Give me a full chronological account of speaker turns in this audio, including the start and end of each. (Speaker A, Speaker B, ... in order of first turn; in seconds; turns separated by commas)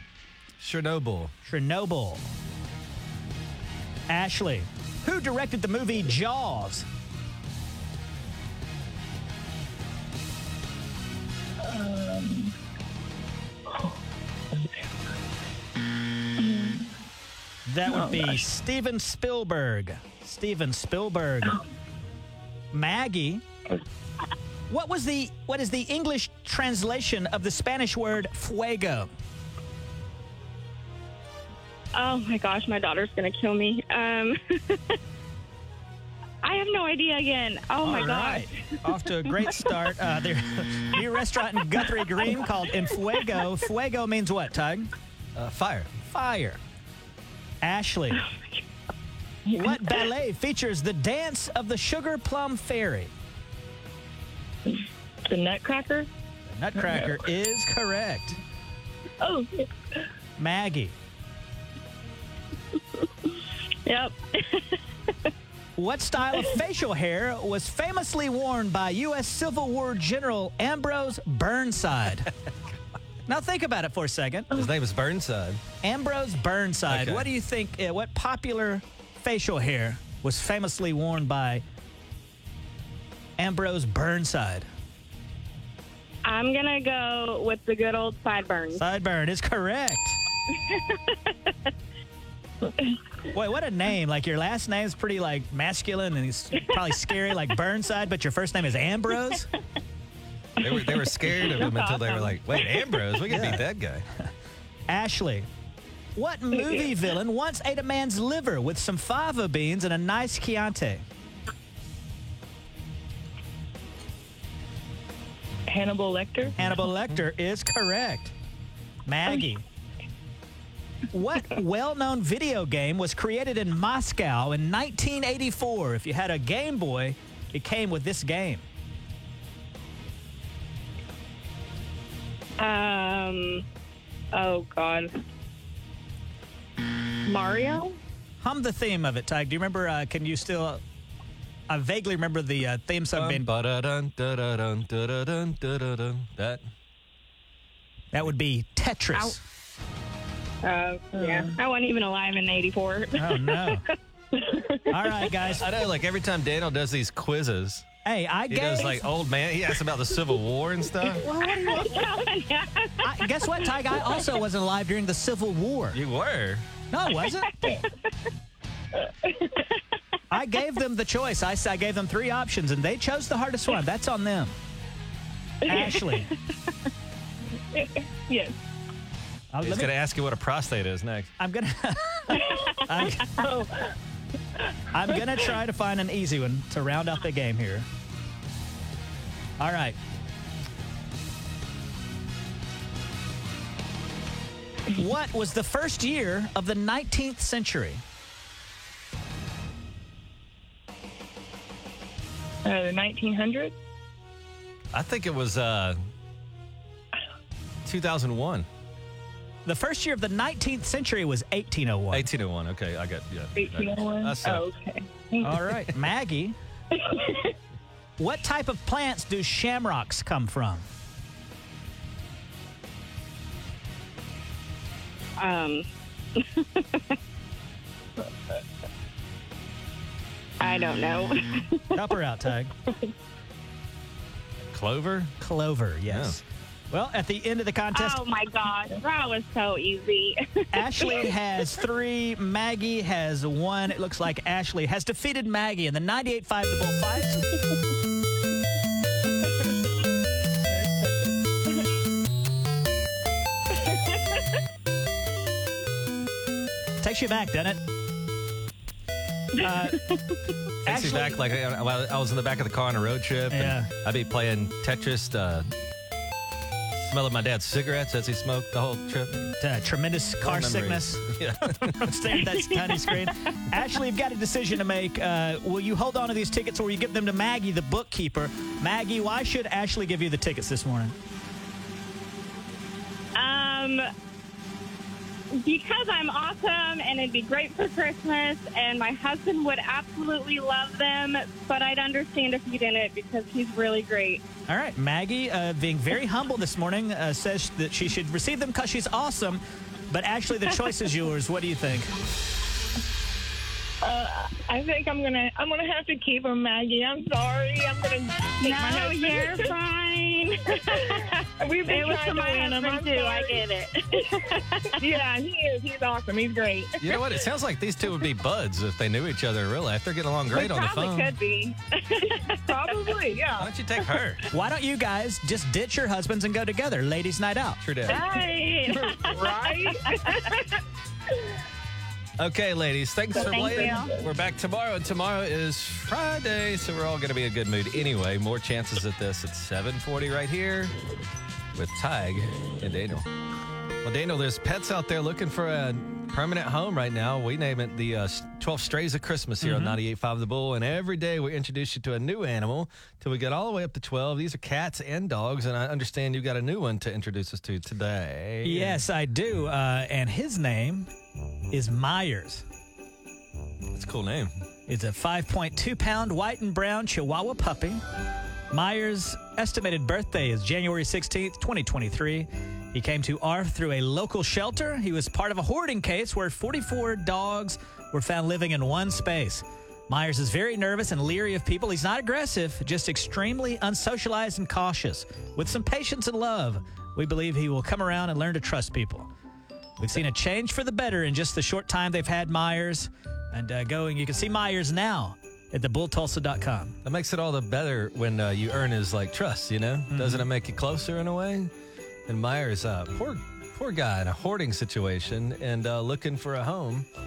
Speaker A: 0.6-1.3, Speaker B: 1.4-2.3, Speaker B: 4.1-6.9, Speaker C: 11.7-12.5, Speaker C: 16.4-16.8, Speaker B: 17.7-21.6, Speaker C: 17.9-18.4, Speaker B: 22.7-23.4, Speaker B: 24.7-29.1, Speaker D: 31.9-35.0, Speaker D: 36.4-38.8, Speaker B: 37.8-44.9, Speaker A: 45.4-45.9, Speaker B: 46.0-46.6, Speaker B: 47.6-48.2, Speaker B: 49.6-53.1, Speaker C: 54.7-56.1, Speaker B: 56.5-58.4, Speaker C: 59.2-59.7, Speaker B: 60.4-61.0, Speaker D: 63.9-64.8, Speaker B: 65.8-72.3, Speaker B: 73.3-74.7, Speaker A: 74.5-75.6, Speaker B: 75.8-81.6, Speaker A: 76.9-77.3, Speaker B: 83.4-84.7, Speaker D: 86.2-88.8, Speaker B: 88.8-90.2, Speaker D: 90.7-91.5, Speaker B: 93.3-99.5, Speaker A: 100.6-104.0, Speaker D: 101.4-102.8, Speaker B: 103.3-103.6, Speaker B: 104.9-105.5, Speaker B: 106.2-111.0, Speaker C: 115.7-116.6, Speaker B: 116.6-118.3, Speaker B: 119.1-119.6, Speaker B: 121.1-128.7, Speaker D: 132.6-133.6, Speaker D: 134.3-135.1, Speaker D: 137.3-138.0, Speaker B: 138.4-140.8, Speaker B: 141.7-143.5, Speaker A: 143.2-146.6, Speaker B: 148.1-149.4, Speaker D: 150.6-153.8, Speaker C: 151.2-151.6, Speaker B: 153.2-153.9, Speaker D: 154.4-154.8, Speaker B: 154.9-155.7, Speaker A: 155.5-157.9, Speaker B: 158.0-159.1, Speaker A: 158.5-161.2, Speaker B: 161.2-162.1, Speaker D: 161.7-164.2, Speaker B: 163.0-166.0, Speaker A: 165.9-166.7, Speaker B: 166.9-167.6, Speaker C: 169.1-169.6, Speaker B: 170.3-174.6, Speaker B: 175.7-176.3, Speaker C: 177.7-178.6, Speaker B: 179.5-179.9, Speaker A: 179.6-181.3, Speaker B: 181.4-183.3, Speaker C: 183.4-183.9, Speaker B: 184.9-187.9, Speaker B: 189.6-190.0, Speaker B: 194.9-198.0, Speaker C: 202.7-203.7, Speaker A: 204.9-206.0, Speaker A: 207.8-208.7, Speaker B: 209.7-212.3, Speaker A: 212.1-214.7, Speaker C: 213.6-215.6, Speaker B: 215.4-216.6, Speaker C: 217.0-217.4, Speaker B: 218.2-220.9, Speaker D: 225.4-227.2, Speaker D: 230.6-231.9, Speaker B: 231.9-232.7, Speaker A: 234.7-235.4, Speaker B: 235.4-238.2, Speaker A: 236.1-236.4, Speaker D: 237.9-241.3, Speaker B: 240.7-247.4, Speaker B: 257.0-257.8, Speaker B: 259.6-260.0, Speaker B: 260.9-261.4, Speaker A: 260.9-265.7, Speaker B: 263.5-263.9, Speaker A: 267.1-269.5, Speaker B: 269.6-281.2, Speaker A: 270.4-272.1, Speaker D: 272.8-273.3, Speaker D: 283.4-284.1, Speaker D: 285.6-294.4, Speaker B: 294.7-302.1, Speaker C: 304.0-309.7, Speaker D: 308.6-315.0, Speaker C: 310.9-313.6, Speaker C: 314.9-317.0, Speaker A: 317.0-321.3, Speaker D: 320.5-323.2, Speaker C: 322.5-323.7, Speaker A: 323.6-324.4, Speaker B: 324.5-327.8, Speaker A: 327.8-328.2, Speaker D: 328.1-330.5, Speaker C: 328.1-330.5, Speaker A: 332.4-340.9, Speaker C: 333.3-334.2, Speaker D: 333.4-334.1, Speaker A: 341.8-343.3, Speaker A: 344.0-359.0, Speaker B: 349.6-350.0, Speaker B: 358.6-361.1, Speaker B: 361.7-362.6, Speaker A: 363.9-364.5, Speaker B: 364.9-368.0, Speaker B: 368.7-389.3, Speaker B: 390.0-397.0, Speaker A: 397.0-401.7, Speaker B: 400.1-400.5, Speaker A: 402.3-407.1